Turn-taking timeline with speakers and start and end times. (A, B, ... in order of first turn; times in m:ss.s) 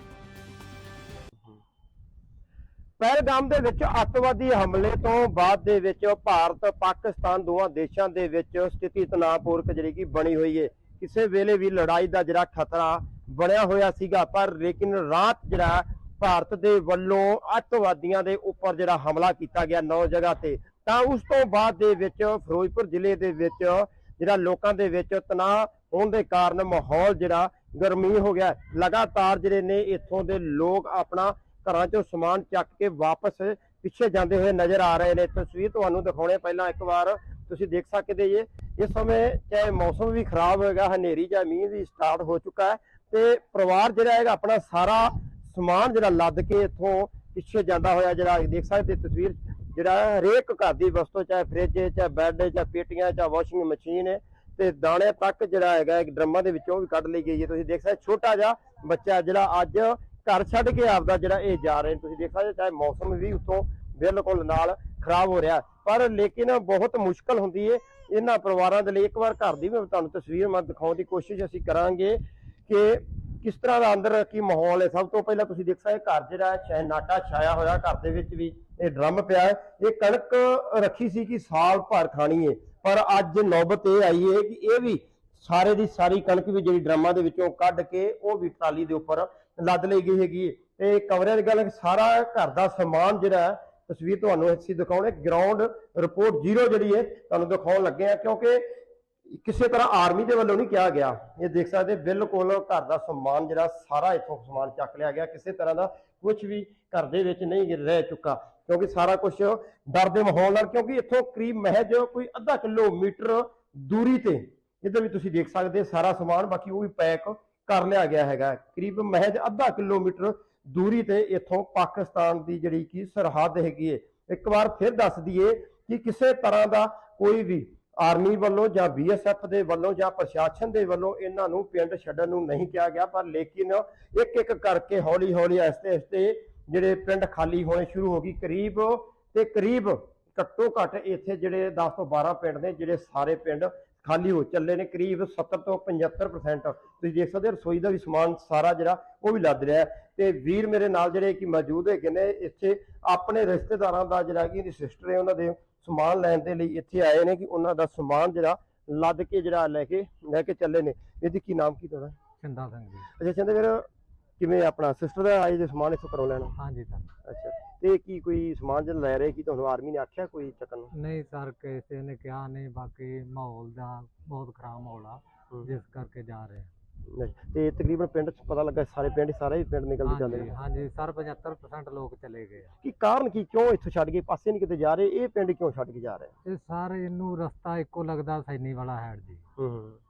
0:03.0-1:38.6 A
1:39.3-2:42.2 A
2:42.4-2:43.1 B
2:43.2-2:43.9 A
2:44.4-2:46.6 A
2:46.6-2:47.1 B
2:47.2-2:50.9 A
2:50.9-2:56.7 B
2:57.1-3:00.5 A
3:00.1-3:02.7 B
3:02.8-3:06.3 A
3:06.4-3:09.4 B
3:09.6-3:10.0 A